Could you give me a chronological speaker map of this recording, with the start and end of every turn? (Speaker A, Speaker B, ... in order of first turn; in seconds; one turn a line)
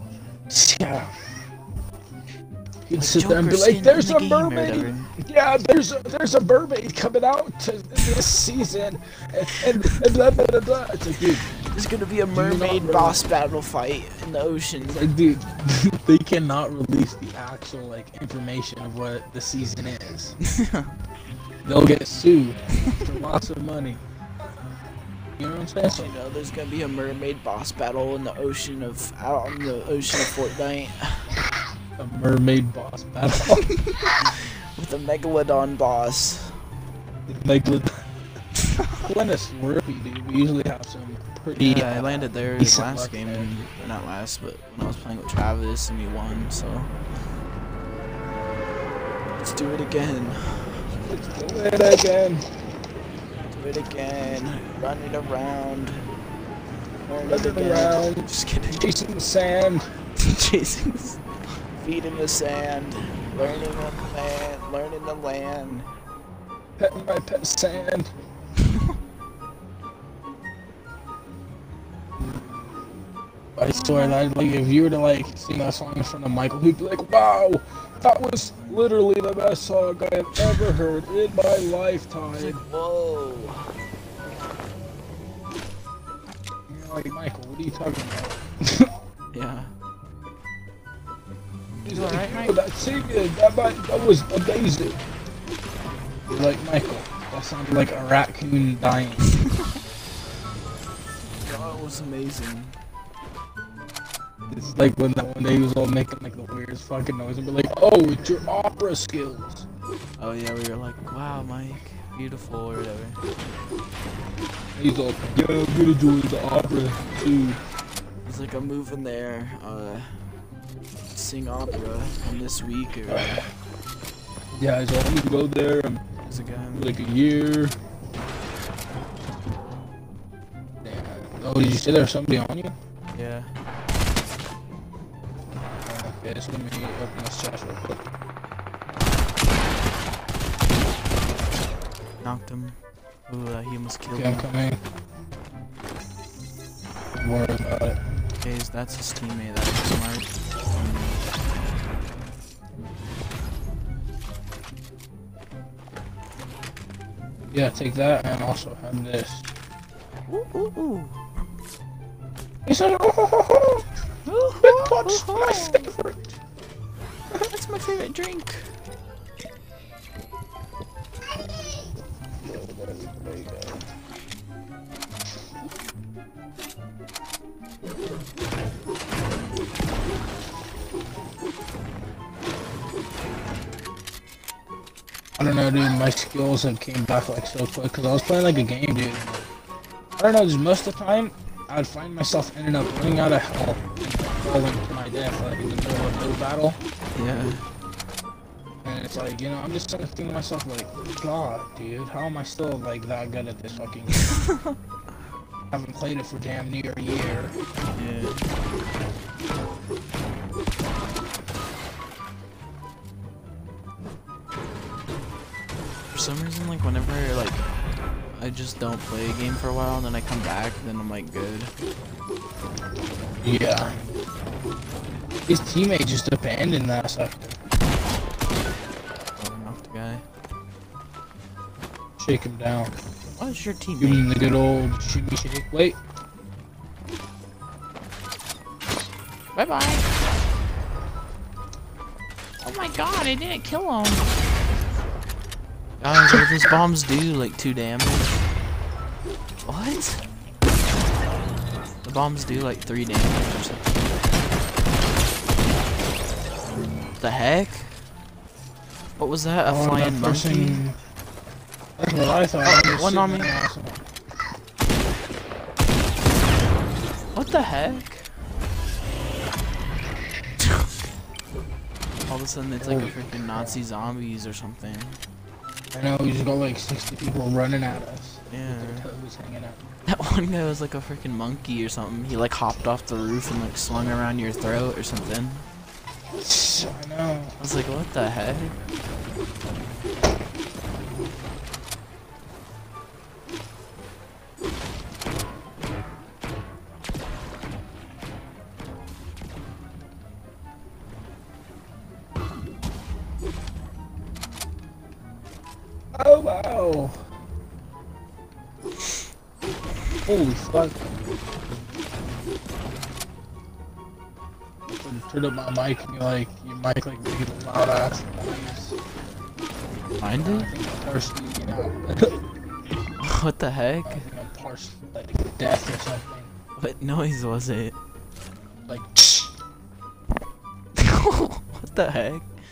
Speaker A: 0.5-1.1
Speaker A: 2.9-11.5
Speaker B: 2.9-5.1
Speaker B: 11.5-15.1
Speaker A: 12.3-13.2
Speaker A: 14.8-20.4
Speaker B: 20.4-20.9
Speaker A: 21.6-24.0
Speaker A: 25.4-26.1
Speaker B: 25.9-31.4
Speaker A: 32.0-33.6
Speaker B: 33.5-36.6
Speaker A: 37.3-37.9
Speaker B: 38.6-39.0
Speaker A: 39.0-43.5
Speaker B: 41.6-46.9
Speaker B: 49.3-50.8
Speaker A: 51.0-52.4
Speaker B: 53.5-56.0
Speaker B: 57.0-58.8
Speaker A: 57.2-59.9
Speaker B: 60.2-61.2
Speaker B: 61.8-65.9
Speaker A: 66.8-68.1
Speaker A: 73.6-82.6
Speaker B: 73.7-74.2
Speaker B: 82.3-83.7
Speaker A: 86.7-88.9
Speaker B: 89.3-89.7
Speaker A: 91.8-95.0
Speaker B: 91.8-92.5
Speaker A: 96.3-99.3
Speaker B: 101.4-102.8
Speaker A: 104.5-109.7
Speaker B: 110.2-113.2
Speaker A: 114.7-117.6
Speaker B: 118.2-120.1
Speaker B: 121.1-123.4
Speaker A: 123.1-123.4
Speaker A: 124.5-126.0
Speaker B: 126.2-127.0
Speaker A: 126.7-127.7
Speaker A: 130.8-132.7
Speaker B: 133.1-133.5
Speaker A: 135.8-138.0
Speaker B: 142.2-144.5
Speaker A: 144.1-144.8
Speaker A: 147.1-148.0
Speaker B: 148.4-150.3
Speaker A: 157.5-159.5
Speaker B: 160.3-161.2
Speaker A: 162.6-163.8
Speaker B: 164.2-165.9
Speaker A: 164.6-166.3
Speaker B: 167.3-168.7
Speaker A: 172.4-173.8
Speaker A: 185.4-189.5
Speaker A: 190.2-196.8
Speaker B: 197.1-197.6
Speaker A: 198.8-204.4
Speaker B: 204.2-204.8
Speaker A: 205.7-207.6
Speaker B: 207.9-208.4
Speaker B: 216.1-217.6
Speaker B: 218.3-221.7
Speaker A: 223.4-224.0
Speaker A: 225.4-227.6
Speaker B: 229.4-230.2
Speaker A: 232.2-232.9
Speaker B: 233.4-234.3
Speaker A: 234.0-236.0
Speaker B: 239.5-240.0
Speaker B: 242.6-244.2
Speaker B: 246.0-248.4
Speaker B: 249.6-250.2
Speaker B: 252.0-254.0
Speaker B: 257.2-257.9
Speaker B: 259.2-260.8
Speaker A: 259.6-261.0
Speaker A: 262.0-264.0
Speaker B: 262.6-263.6
Speaker B: 267.3-268.3
Speaker B: 270.6-270.9
Speaker B: 272.2-275.2
Speaker A: 272.8-273.8
Speaker A: 275.9-279.8
Speaker B: 278.5-279.1
Speaker B: 280.1-285.6
Speaker A: 286.4-287.6
Speaker B: 287.6-288.8
Speaker A: 306.1-307.2
Speaker A: 310.2-311.0
Speaker A: 314.9-319.0
Speaker B: 320.1-320.7
Speaker A: 320.3-322.4
Speaker B: 323.2-324.2
Speaker A: 324.1-326.5
Speaker B: 326.8-327.9
Speaker A: 328.9-329.5
Speaker B: 330.9-332.4